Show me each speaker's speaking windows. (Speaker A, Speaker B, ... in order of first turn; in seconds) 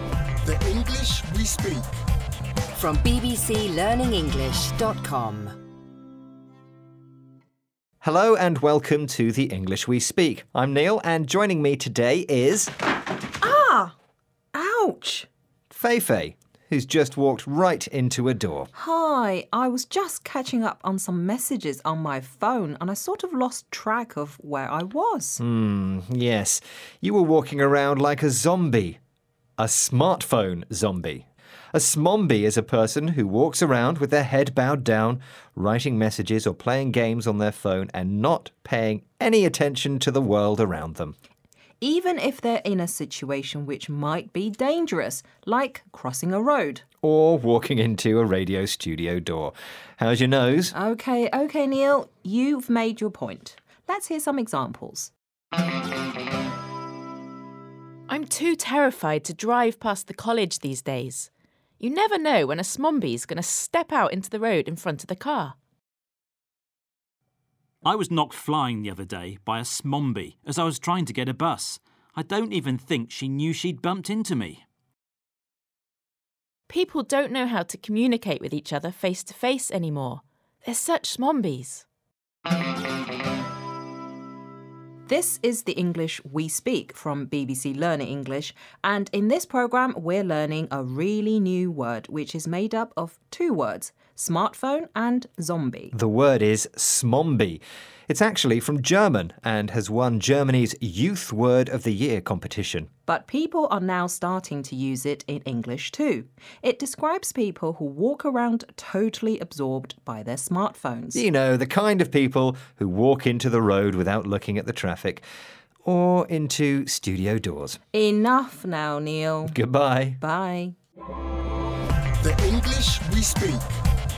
Speaker A: 0.5-1.9, 122.2-123.7
Speaker B: 2.8-5.5
Speaker C: 8.0-12.7, 15.7-18.7, 25.4-29.0, 29.6-41.1, 47.0-50.7, 95.9-102.9, 111.1-115.2, 115.9-117.8, 119.4-120.2
Speaker D: 13.4-13.9, 14.5-15.3, 18.7-25.4, 41.8-46.8, 50.7-55.1, 85.1-95.9, 103.1-111.2, 117.9-119.6, 120.2-120.8
Speaker E: 58.1-61.3, 61.8-65.5, 76.7-81.8
Speaker F: 67.8-74.6